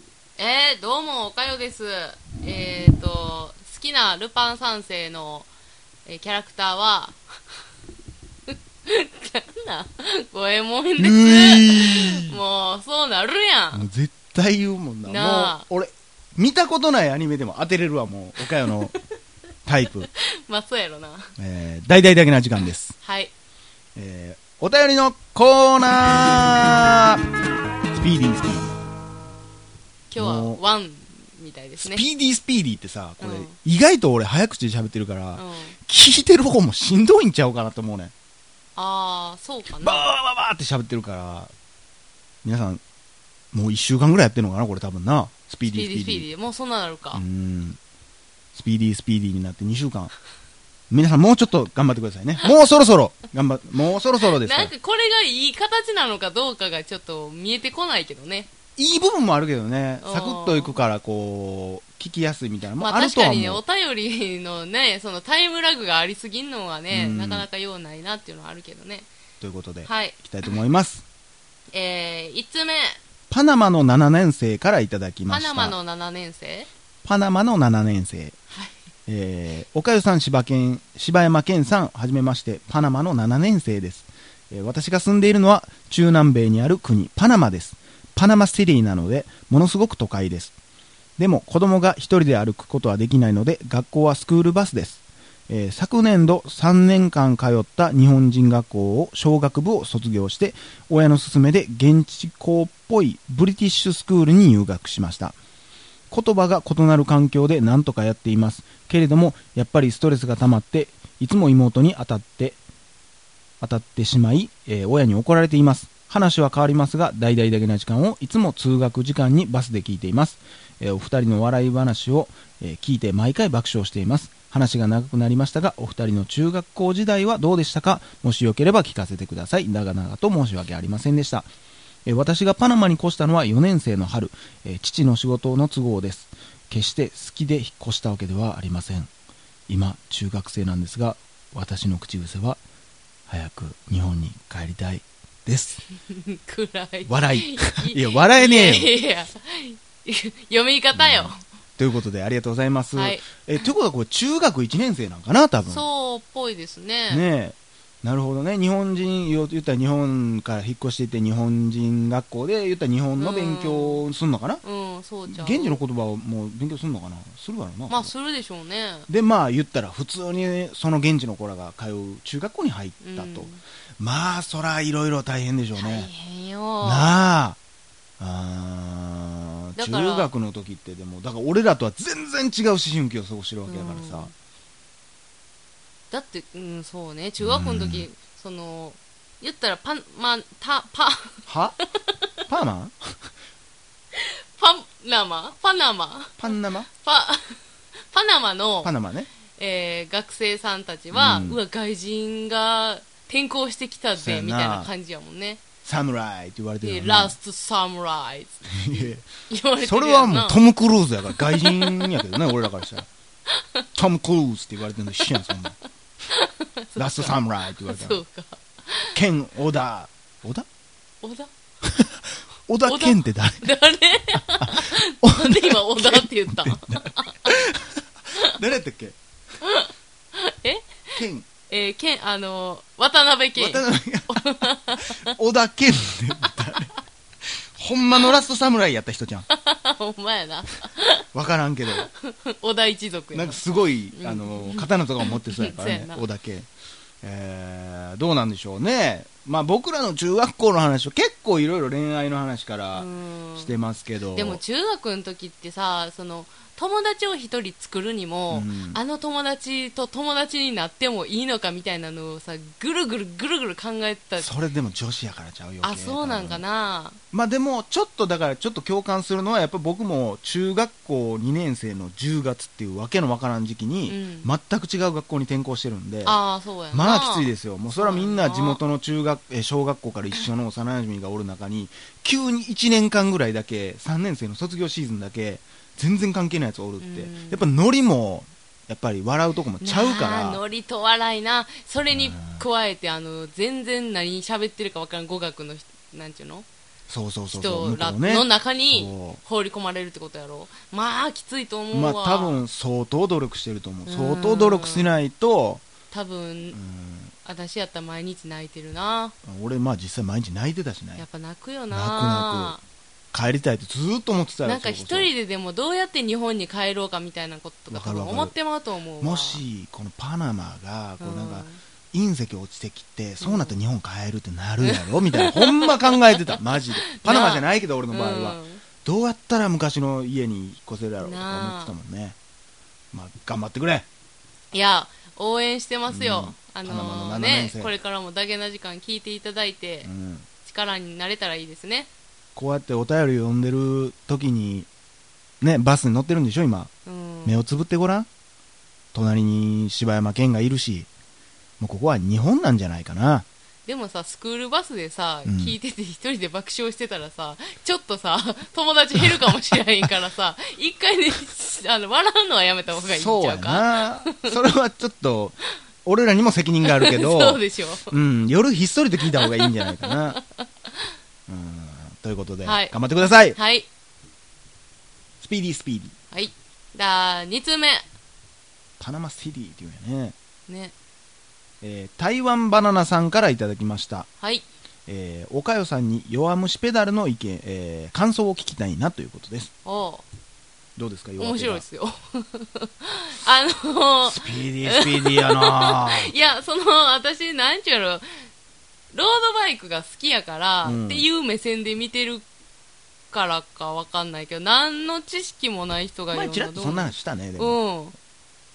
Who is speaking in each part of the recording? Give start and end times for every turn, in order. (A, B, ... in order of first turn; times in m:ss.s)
0:00.4-0:05.5 A
0:06.0-0:07.2 A
0:08.5-0:13.8 A
0:11.0-0:12.4 B
0:13.7-0:18.9 B
0:15.0-0:15.6 A
0:18.7-0:19.0 A
0:19.6-0:20.1 B
0:20.2-0:21.3 A
0:21.4-0:23.0 B
0:23.0-0:23.3 A
0:23.9-0:27.2 B
0:27.9-0:28.7 B
0:30.1-0:32.0 A
0:30.2-0:30.6 B
0:31.8-0:38.1 B
0:33.2-0:33.5 A
0:35.4-0:35.8 A
0:38.8-0:40.1 A
0:39.8-0:41.5 B
0:42.4-0:42.8 B
0:43.5-0:46.3 B
0:45.6-0:47.2 A
0:47.1-0:47.8 B
0:48.5-0:50.1 B
0:50.9-0:54.7 B
0:54.2-0:58.5 A
0:58.8-1:03.6 B
1:00.0-1:00.7 A
1:02.8-1:09.1 A
1:06.9-1:07.5 B
1:09.4-1:11.0 B
1:09.8-1:10.5 A
1:11.7-1:13.0 A
1:13.3-1:15.8 B
1:15.3-1:16.7 A
1:17.0-1:18.4 B
1:19.1-1:30.6 B
1:31.2-1:45.4 B
1:46.1-1:52.6 B
1:53.6-2:11.5 B
2:12.0-2:19.1 B
2:19.7-2:22.6 B
2:23.3-2:25.8 B
2:26.1-2:31.4 A
2:27.0-2:28.9 B
2:30.9-2:35.8 B
2:32.9-2:33.2 A
2:35.6-2:37.2 A
2:37.1-2:44.6 B
2:43.2-2:44.0 A
2:44.6-2:45.8 A
2:45.3-2:48.1 B
2:47.9-2:49.1 A
2:49.1-2:56.1 B
2:53.0-2:53.6 A
2:55.8-2:57.1 A
2:56.8-2:57.6 B
2:58.2-3:04.3 B
2:59.8-3:00.3 A
3:03.7-3:04.3 A
3:06.1-3:11.4 A
3:07.4-3:08.1 B
3:11.5-3:11.8 B
3:12.5-3:13.3 B
3:14.1-3:18.9 A
3:16.4-3:16.9 B
3:18.8-3:19.3 B
3:19.6-3:25.6 A
3:21.1-3:21.6 B
3:24.2-3:24.9 B
3:25.8-3:27.4 B
3:26.8-3:30.6 A
3:28.7-3:33.1 B
3:31.3-3:32.4 A
3:34.0-3:35.8 B
3:36.3-3:39.2 A
3:37.0-3:38.2 B
3:39.1-3:40.6 B
3:41.2-3:41.5 A
3:41.8-3:42.2 B
3:42.7-3:43.7 B
3:42.8-3:47.6 A
3:44.6-3:49.2 B
3:49.6-3:51.1 A
3:51.1-3:51.5 B
3:51.7-3:55.3 A
3:53.6-3:54.4 B
3:55.0-3:56.9 B
3:57.8-3:59.5 B
3:59.5-4:01.2 A
4:01.3-4:02.1 B
4:02.0-4:06.2 A
4:03.3-4:06.7 B
4:07.2-4:14.6 B
4:12.9-4:13.7 A
4:14.3-4:24.5 A
4:18.5-4:19.0 B
4:24.4-4:26.6 B
4:25.8-4:27.2 A
4:27.3-4:36.4 B
4:34.1-4:34.5 A
4:36.2-4:38.8 A
4:36.9-4:50.6 B
4:47.0-4:47.7 A
4:49.8-4:56.6 A
4:52.1-4:52.6 B
4:57.1-4:59.4 B
4:57.5-5:02.6 A
5:01.9-5:05.8 B
5:04.1-5:05.1 A
5:06.1-5:06.8 A
5:06.7-5:07.3 B
5:07.4-5:09.3 A
5:09.4-5:11.2 B
5:11.2-5:12.8 A
5:11.9-5:12.8 B
5:13.3-5:15.3 B
5:14.6-5:19.6 A
5:17.9-5:18.5 B
5:19.2-5:32.4 B
5:21.2-5:21.8 A
5:23.4-5:23.7 A
5:24.8-5:26.3 A
5:27.2-5:28.8 A
5:31.2-5:31.9 A
5:33.1-5:34.1 B
5:34.7-5:40.1 A
5:36.1-5:37.9 B
5:40.0-5:40.5 B
5:40.6-5:42.1 A
5:42.5-5:44.9 B
5:45.6-5:46.9 B
5:47.0-5:47.6 A
5:47.4-5:48.3 B
5:49.1-5:51.1 B
5:51.8-5:53.4 B
5:53.8-6:04.5 A
5:55.4-5:55.8 B
6:02.9-6:10.4 B
6:06.8-6:08.1 A
6:09.3-6:11.0 A
6:11.5-6:13.6 B
6:12.6-6:13.9 A
6:15.4-6:16.1 B
6:16.3-6:18.0 A
6:19.0-6:20.3 B
6:20.7-6:20.9 A
6:21.8-6:24.3 B
6:24.4-6:24.6 A
6:25.1-6:29.7 B
6:29.8-6:30.2 A
6:31.0-6:31.8 B
6:31.4-6:38.2 A
6:34.2-6:36.3 B
6:39.1-6:42.4 A
6:40.8-6:41.2 B
6:43.3-6:48.1 A
6:46.3-6:47.8 B